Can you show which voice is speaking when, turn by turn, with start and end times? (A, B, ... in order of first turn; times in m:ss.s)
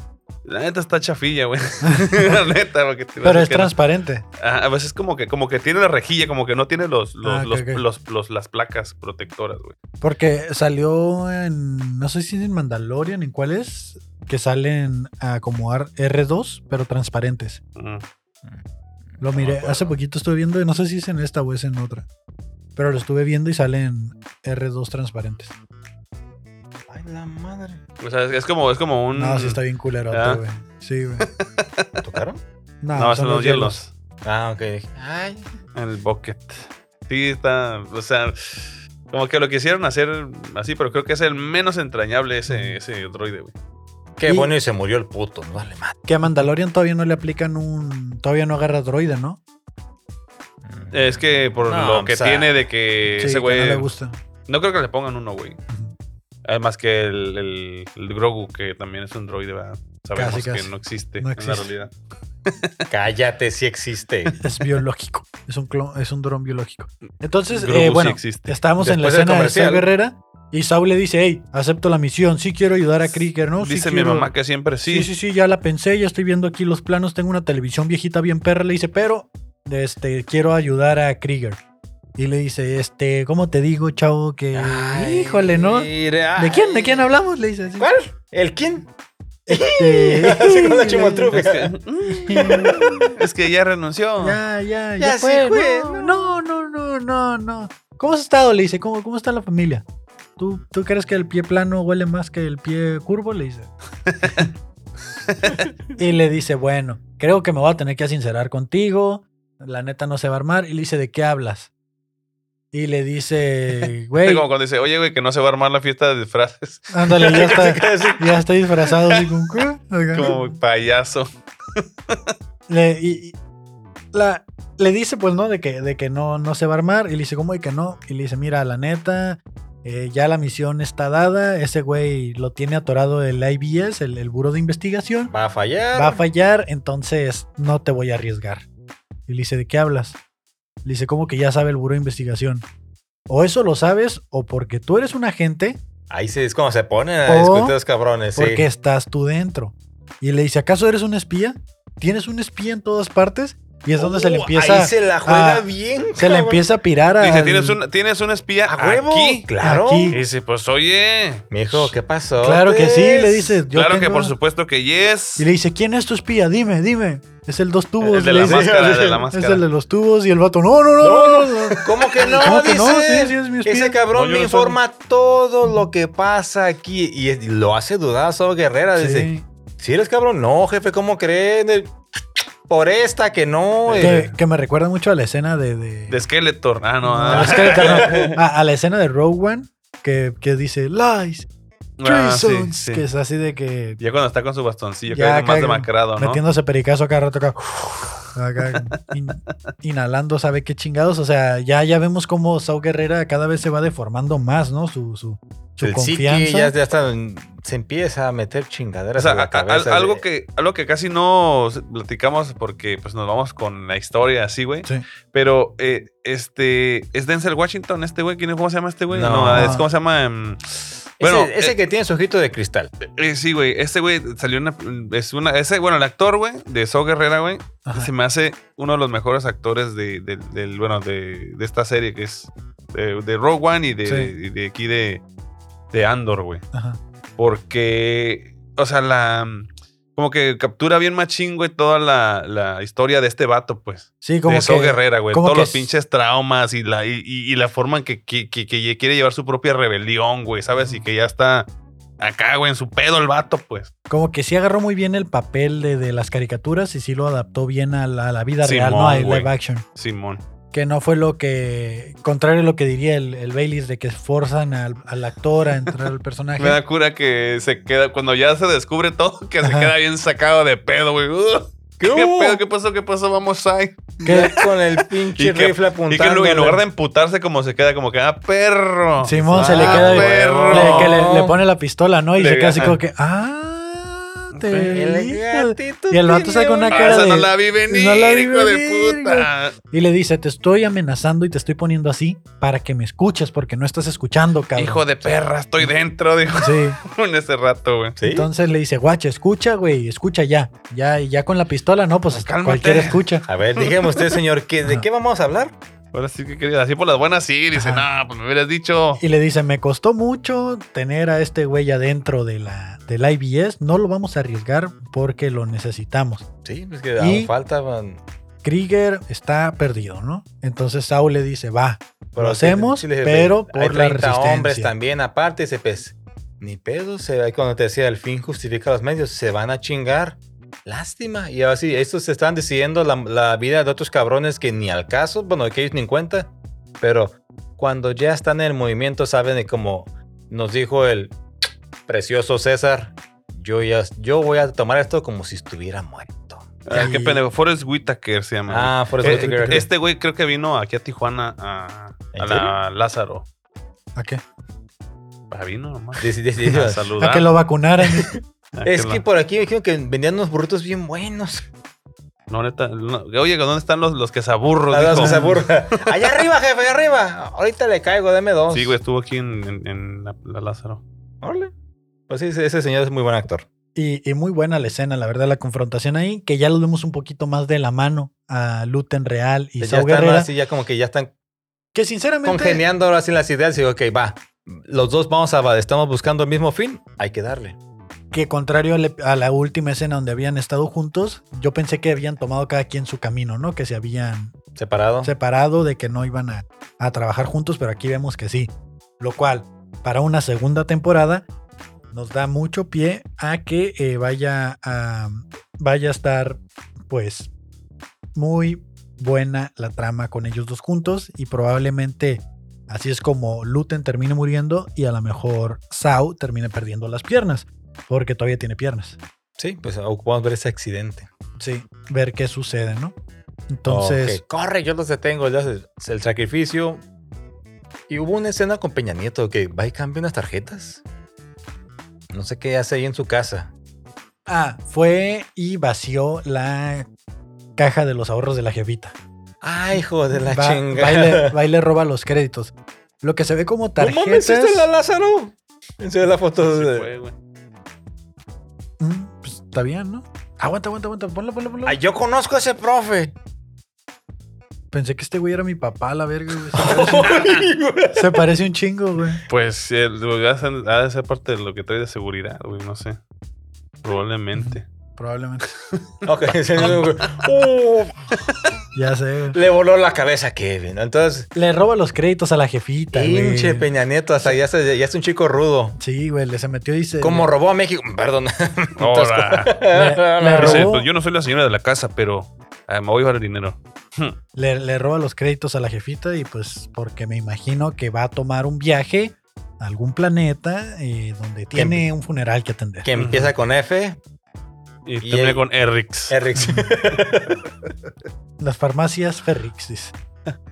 0:00.4-0:03.7 A
0:01.8-0:02.3 B
0:03.2-0:04.2 B
0:04.4-0:09.7 A
0:07.2-0:07.8 B
0:10.0-0:17.6 B
0:17.8-0:18.0 A
0:18.4-0:19.9 C
0:19.2-0:22.1 B
0:22.8-0:25.5 B
0:26.9-0:27.8 C
0:28.0-0:30.4 A
0:29.2-0:31.3 B
0:31.2-0:32.0 A
0:32.0-0:32.4 C
0:32.8-0:33.8 B
0:32.9-0:33.9 A
0:34.2-0:35.5 C
0:35.7-0:43.5 A
0:42.5-0:42.8 B
0:44.2-0:46.0 C
0:44.3-0:44.5 B
0:46.0-0:49.4 B
0:50.6-0:52.5 C
0:50.9-0:53.9 A
0:53.2-0:54.2 B
0:54.5-0:55.6 A
0:55.7-0:55.9 B
0:56.4-1:01.9 A
1:00.2-1:01.7 B
1:02.4-1:02.8 A
1:02.9-1:04.3 C
1:04.3-1:04.6 A
1:04.4-1:14.3 B
1:07.5-1:08.6 A
1:08.8-1:09.9 C
1:13.6-1:15.1 A
1:14.8-1:21.6 B
1:22.2-1:27.9 B
1:24.5-1:27.1 C
1:27.7-1:28.9 C
1:29.5-1:31.4 B
1:29.5-1:31.7 C
1:31.3-1:34.4 A
1:32.1-1:33.1 B
1:32.3-1:33.1 C
1:34.2-1:39.8 B
1:35.0-1:36.3 C
1:40.4-1:43.7 B
1:44.1-1:44.5 A
1:45.3-1:45.6 A
1:46.0-1:51.7 B
1:52.7-1:54.4 B
1:53.8-1:57.4 A
1:56.9-2:00.5 B
1:57.2-1:58.4 C
2:00.1-2:02.2 A
2:02.7-2:03.4 B
2:04.1-2:15.3 B
2:15.3-2:16.2 C
2:15.9-2:18.6 B
2:19.3-2:20.2 B
2:20.8-2:22.6 B
2:23.3-2:25.8 B
2:26.1-2:28.6 C
2:27.2-2:27.8 B
2:28.3-2:37.8 B
2:34.0-2:36.6 C
2:37.2-2:39.5 A
2:38.7-2:40.2 C
2:39.6-2:40.2 B
2:40.1-2:41.5 A
2:41.5-2:43.6 C
2:42.4-2:44.3 B
2:43.7-2:45.4 A
2:45.4-2:48.7 B
2:48.0-2:49.6 A
2:48.4-2:49.2 C
2:49.3-2:54.0 B
2:51.0-3:01.9 C
2:52.2-2:52.6 A
2:54.1-2:54.8 A
2:58.9-2:59.4 B
3:02.7-3:04.3 C
3:03.8-3:04.3 A
3:04.0-3:06.2 B
3:06.1-3:08.4 A
3:07.0-3:11.5 B
3:07.3-3:08.3 C
3:12.0-3:13.0 A
3:12.0-3:14.0 B
3:14.0-3:16.4 A
3:15.1-3:26.7 B
3:25.8-3:30.2 C
3:29.2-3:41.7 A
3:39.1-3:39.8 C
3:39.5-3:39.8 B
3:41.2-3:42.9 C
3:43.0-3:55.2 A
3:47.8-3:48.1 B
3:54.0-3:54.3 B
3:55.9-3:56.6 A
3:56.7-3:57.0 B
3:57.4-4:11.7 A
4:04.2-4:05.9 B
4:10.7-4:11.0 B
4:12.2-4:13.9 A
4:14.1-4:19.8 B
4:18.6-4:20.4 A
4:20.7-4:26.8 B
4:26.6-4:41.2 A
4:29.6-4:29.9 B
4:32.0-4:32.6 C
4:34.2-4:34.6 B
4:34.2-4:36.8 C
4:39.2-4:55.1 B
4:39.5-4:41.6 C
4:42.4-4:43.0 A
4:44.5-4:45.0 A
4:44.9-4:47.3 C
4:46.9-4:49.7 A
4:54.8-4:58.2 A
4:56.5-4:57.0 B
4:58.2-4:58.5 C
4:58.2-5:03.4 B
5:02.3-5:04.4 A
5:03.5-5:05.7 C
5:06.1-5:09.2 A
5:07.7-5:08.0 B
5:09.2-5:16.4 B
5:16.6-5:18.2 C
5:17.2-5:17.5 B
5:18.6-5:24.9 B
5:22.3-5:41.4 C
5:42.1-5:47.1 C
5:46.8-5:53.4 A
5:46.9-5:47.4 B
5:48.7-5:49.9 C
5:49.2-5:49.9 B
5:52.3-5:52.7 C
5:54.2-5:54.4 B
5:55.5-5:57.5 A
5:56.2-5:57.1 C
5:57.2-5:58.3 B
5:58.0-6:01.6 C
5:58.7-5:59.2 A
6:02.5-6:06.1 A
6:04.9-6:09.0 C
6:05.1-6:05.6 B
6:08.7-6:11.0 A
6:11.4-6:11.7 C
6:12.3-6:13.6 C
6:13.9-6:20.5 B
6:19.8-6:21.3 C
6:21.9-6:22.8 B
6:22.4-6:27.8 C
6:28.3-6:34.5 B
6:34.8-6:35.3 C
6:35.2-6:41.5 B
6:42.1-6:47.5 B
6:48.3-6:59.2 B
6:59.6-7:01.3 C
7:01.6-7:03.1 B
7:03.7-7:04.4 B
7:03.9-7:07.0 C
7:08.1-7:11.0 C
7:12.3-7:13.7 C
7:14.5-7:17.1 B
7:17.8-7:19.1 B
7:19.6-7:21.6 C
7:20.4-7:24.9 B
7:24.0-7:27.1 C
7:26.6-7:27.3 A
7:29.0-7:32.0 B
7:31.8-7:33.3 C
7:34.9-7:37.3 B
7:36.7-7:38.4 C
7:38.1-7:39.4 B
7:39.5-7:43.2 A
7:44.0-7:44.8 A
7:44.5-7:45.6 B
7:46.2-7:48.3 C
7:46.8-7:47.5 A
7:48.9-7:49.6 B
7:49.5-7:51.5 C
7:51.5-7:53.9 B
7:53.1-7:56.0 C
7:56.0-7:57.5 B
7:57.2-8:00.9 C
7:59.0-7:59.8 A
7:59.9-8:01.1 B
8:00.6-8:04.4 A
8:04.6-8:13.1 B
8:11.7-8:12.1 C
8:13.0-8:14.2 C
8:13.1-8:13.5 A
8:15.0-8:16.4 A
8:15.2-8:15.6 C
8:16.3-8:17.6 C
8:16.5-8:16.9 B
8:18.6-8:20.1 B